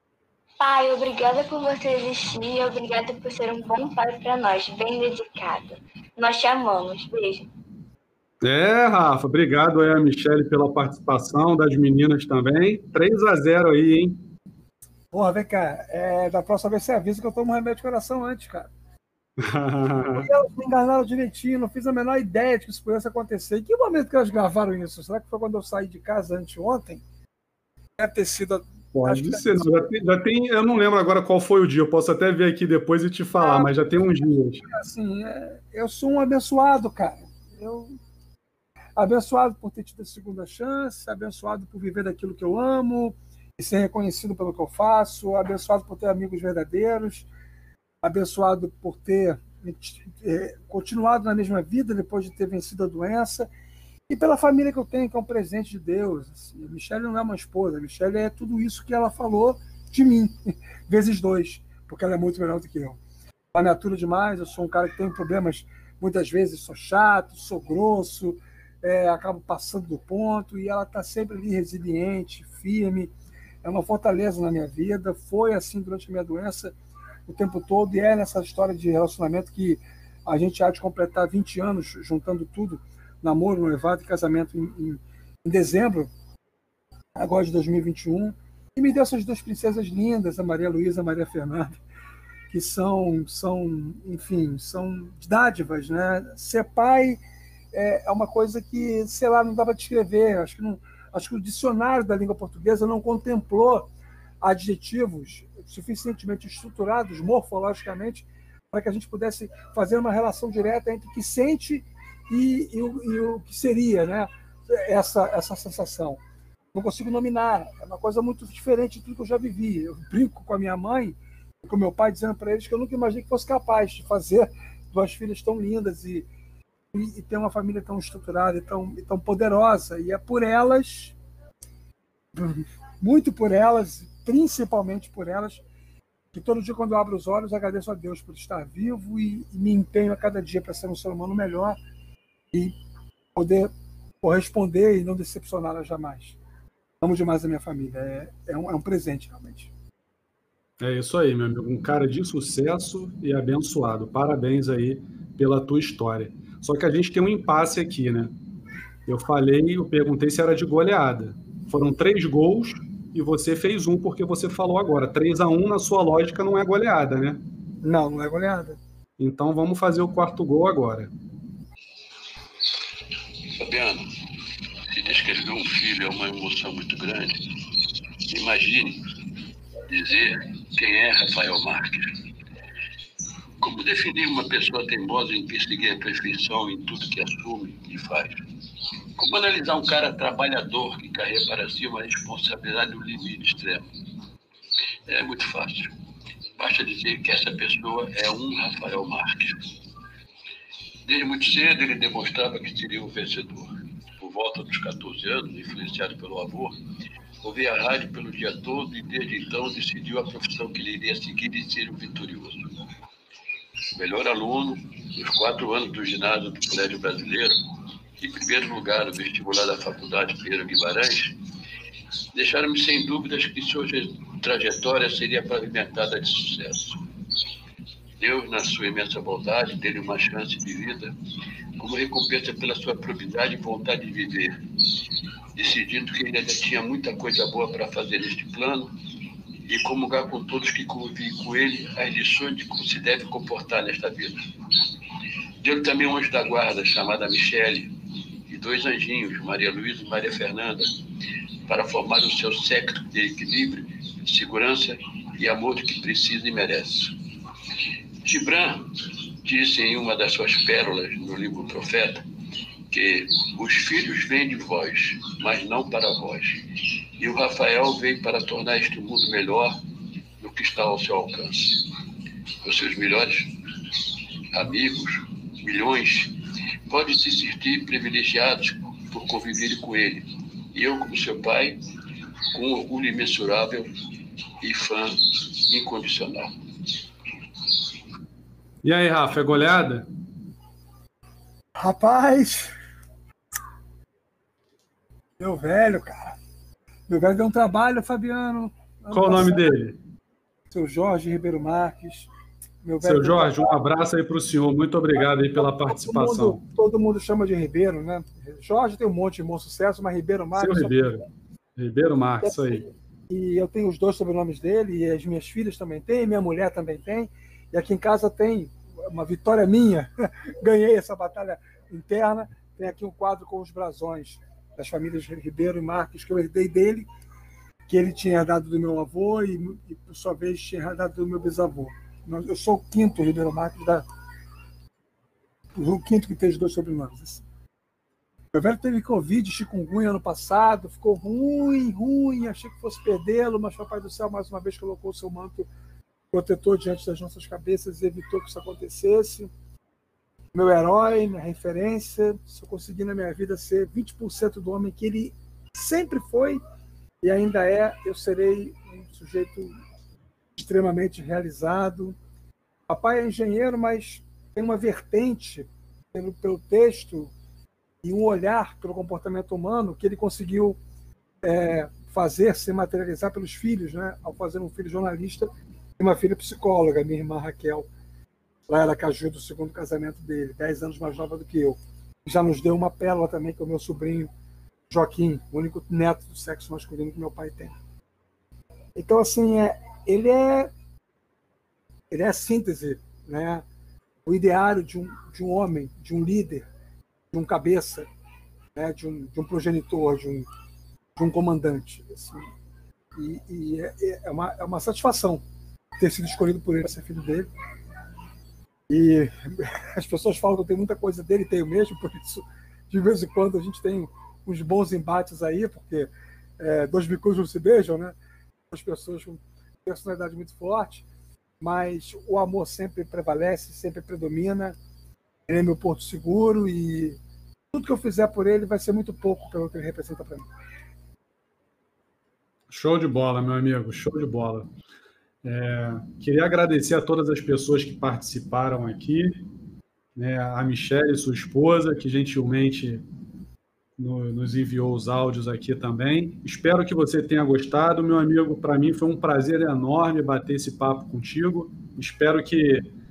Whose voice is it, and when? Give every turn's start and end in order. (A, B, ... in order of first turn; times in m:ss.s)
0:00.6-0:07.5 A
0:08.4-0:14.2 B
0:15.1-0:18.7 C
0:19.4-0:20.3 B
0:20.1-0:27.0 C
0:28.0-0:29.9 C
0:28.9-0:34.6 B
0:33.4-0:34.1 C
0:34.6-0:37.9 C
0:39.0-0:47.3 C
0:48.0-0:53.5 C
0:54.1-1:03.0 C
1:03.5-1:13.1 C
1:13.6-1:16.7 C
1:17.3-1:26.1 C
1:27.2-1:31.8 C
1:32.5-1:37.2 C
1:37.7-1:43.9 C
1:44.4-1:56.2 C
1:56.7-2:06.3 C
2:06.9-2:11.2 C
2:12.3-2:15.6 C
2:16.3-2:21.8 C
2:23.4-2:26.4 C
2:27.0-2:29.7 C
2:30.8-2:38.3 B
2:39.1-2:47.4 B
2:47.8-2:48.8 C
2:49.2-2:51.1 B
2:53.6-2:54.1 D
2:54.9-2:57.4 D
2:58.2-2:59.0 D
2:59.9-3:02.1 D
3:03.6-3:08.3 D
3:09.2-3:13.9 D
3:15.1-3:15.9 D
3:16.6-3:19.7 D
3:21.0-3:26.8 D
3:27.4-3:32.7 D
3:33.9-3:37.6 D
3:38.2-3:41.4 D
3:42.3-3:47.0 D
3:48.2-3:51.2 D
3:51.8-3:54.6 D
3:55.6-3:58.9 D
3:59.6-4:04.4 D
4:05.6-4:07.9 D
4:08.5-4:10.9 D
4:11.6-4:17.2 D
4:18.2-4:18.8 D
4:19.4-4:22.3 D
4:22.9-4:26.6 D
4:27.2-4:29.8 D
4:30.4-4:31.8 D
4:32.6-4:33.5 D
4:34.5-4:41.8 D
4:42.5-4:43.9 D
4:44.6-4:46.5 D
4:48.8-4:50.1 B
4:51.7-4:52.7 C
4:55.4-4:56.4 C
4:57.1-4:59.7 C
4:59.1-5:00.0 B
5:00.7-5:02.3 C
5:02.8-5:03.8 C
5:03.0-5:06.6 B
5:05.1-5:11.3 C
5:10.6-5:12.8 B
5:12.4-5:27.1 C
5:27.9-5:34.1 C
5:35.7-5:37.4 C
5:38.5-5:45.7 C
5:46.3-5:49.5 C
5:50.5-5:56.6 C
5:57.2-5:59.8 C
6:00.6-6:02.2 C
6:02.9-6:07.3 C
6:08.0-6:10.8 C
6:11.4-6:17.9 C
6:18.7-6:24.3 C
6:24.9-6:27.8 C
6:28.9-6:30.7 C
6:32.1-6:33.6 C
6:34.2-6:36.7 C
6:37.3-6:38.1 C
6:38.7-6:40.5 C
6:41.2-6:42.5 C
6:43.1-6:45.4 C
6:46.0-6:47.5 C
6:48.9-6:58.1 C
6:58.7-7:01.1 C
7:01.6-7:04.8 C
7:05.5-7:07.2 C
7:07.7-7:10.5 C
7:12.7-7:14.7 B
7:15.4-7:19.4 B
7:20.2-7:23.0 B
7:24.0-7:32.9 B